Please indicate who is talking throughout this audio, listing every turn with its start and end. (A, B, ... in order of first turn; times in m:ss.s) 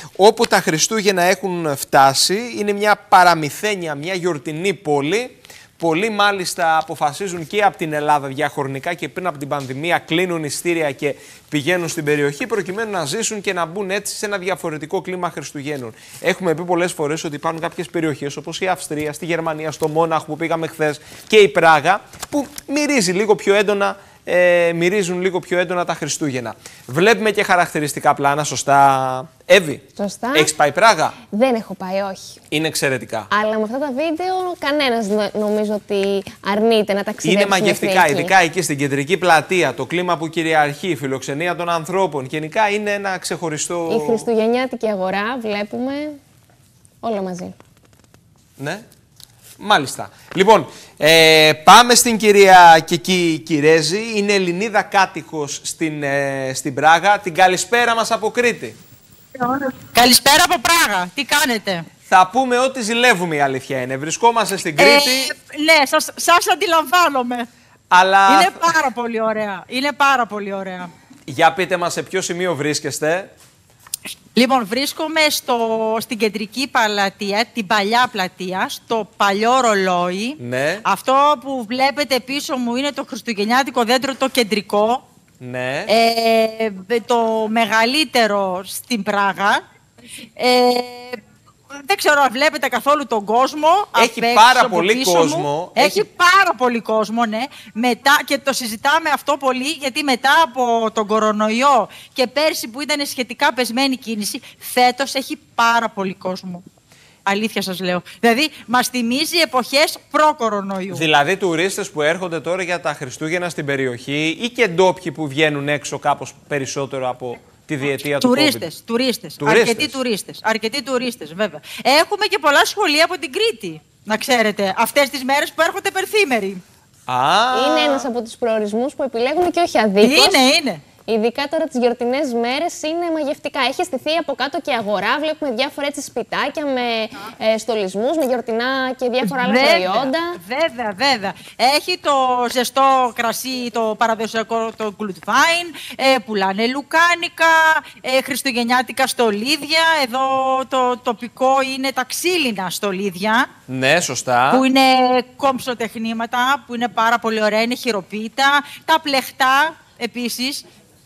0:00.2-0:31.2 A
0:30.0-0:30.5 B
0:31.3-0:32.4 B
0:32.5-0:33.3 A
0:33.3-0:38.3 B
0:37.2-0:44.3 A
0:43.9-0:46.2 B
0:47.0-0:47.6 B
0:48.6-0:48.8 A
0:49.6-0:58.8 A
0:59.4-1:01.9 C
1:02.1-1:05.3 A
1:04.8-1:07.5 C
1:07.9-1:08.7 A
1:08.3-1:10.9 C
1:11.3-1:13.3 A
1:14.3-1:25.0 C
1:20.4-1:20.8 A
1:25.4-1:25.9 A
1:25.9-1:29.6 C
1:30.4-1:31.2 C
1:31.7-1:46.6 C
1:34.0-1:36.0 A
1:47.2-1:51.1 C
1:50.9-1:58.7 A
1:58.2-2:06.6 C
1:59.4-2:00.0 A
2:07.1-2:08.1 A
2:07.5-2:10.4 B
2:10.0-2:10.8 C
2:11.1-2:20.4 B
2:19.2-2:33.5 C
2:33.7-2:34.6 A
2:34.5-2:40.6 C